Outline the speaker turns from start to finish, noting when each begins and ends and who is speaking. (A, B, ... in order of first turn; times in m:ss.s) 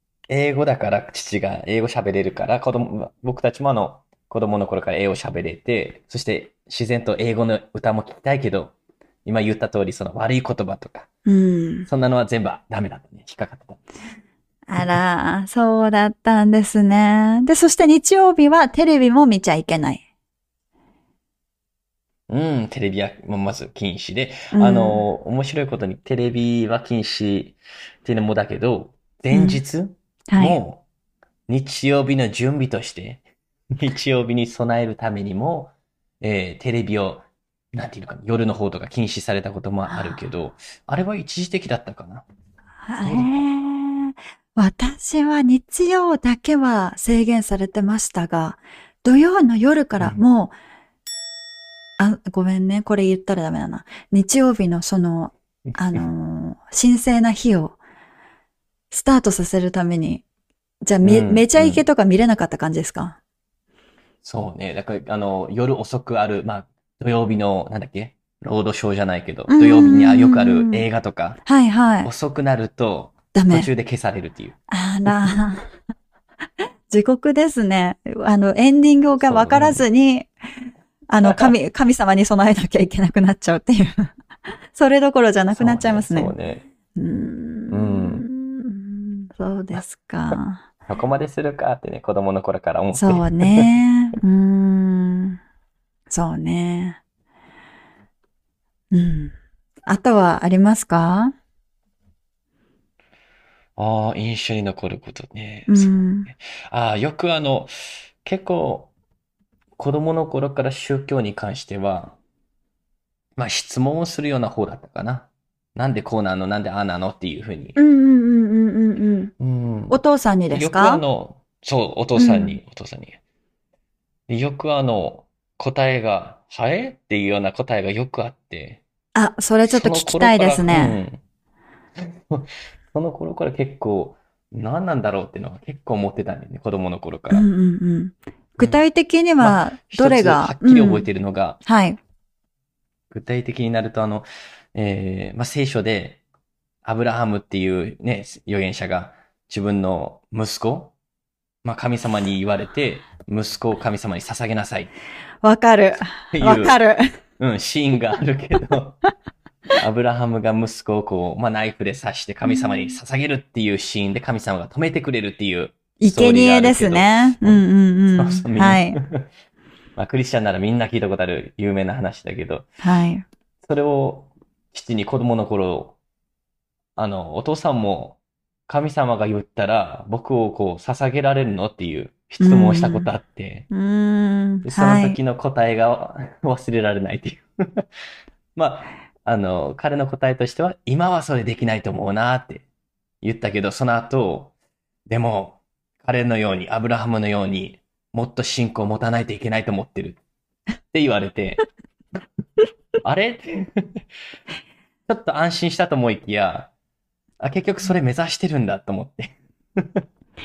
0:00.3-0:08.7 A
0:09.2-0:11.1 A
0:11.2-0:11.9 B
0:11.9-0:13.8 A
0:14.7-0:20.0 B
0:22.3-0:30.8 A
0:24.5-0:25.0 B
0:29.3-0:29.6 B
0:30.3-0:30.6 B
0:31.5-0:42.2 A
0:39.9-0:40.2 B
0:42.8-0:50.5 B
0:43.0-0:43.5 A
0:52.0-0:57.8 B
0:55.7-0:56.0 A
0:58.9-1:00.2 B
1:00.8-1:03.2 B
1:01.0-1:01.8 A
1:04.2-1:11.4 A
1:09.5-1:10.8 B
1:11.4-1:12.1 B
1:12.0-1:15.3 A
1:13.3-1:13.7 B
1:14.7-1:15.7 B
1:16.9-1:20.3 B
1:19.2-1:19.8 A
1:21.1-1:24.1 B
1:24.7-1:26.3 B
1:25.5-1:26.6 A
1:27.0-1:30.6 B
1:27.7-1:28.2 A
1:30.9-1:33.7 A
1:32.9-1:35.4 B
1:36.1-1:37.0 B
1:38.9-1:39.3 B
1:39.9-1:41.3 B
1:43.8-1:48.9 A
1:45.7-1:46.3 B
1:49.8-1:52.2 A
1:53.4-1:57.8 A
1:57.8-1:59.3 B
1:59.4-2:03.2 A
1:59.9-2:01.0 B
2:02.2-2:02.6 B
2:04.3-2:08.8 A
2:09.1-2:11.0 B
2:09.7-2:11.2 A
2:12.0-2:17.4 A
2:17.3-2:21.0 B
2:19.4-2:21.6 A
2:21.6-2:22.0 B
2:23.1-2:26.2 A
2:26.8-2:30.9 A
2:31.6-2:34.9 A
2:35.4-2:37.2 B
2:36.3-2:36.8 A
2:37.4-2:39.0 A
2:39.8-2:49.3 A
2:42.5-2:42.9 B
2:46.0-2:49.0 B
2:50.0-2:52.7 A
2:52.8-2:53.2 B
2:53.6-2:56.0 A
2:57.0-2:58.2 A
2:58.7-3:03.7 A
3:02.4-3:03.1 B
3:03.7-3:05.2 B
3:04.6-3:07.8 A
3:08.6-3:12.6 A
3:13.2-3:14.5 A
3:15.1-3:20.2 A
3:20.9-3:21.6 A
3:23.0-3:24.0 A
3:25.1-3:26.7 A
3:27.4-3:30.0 A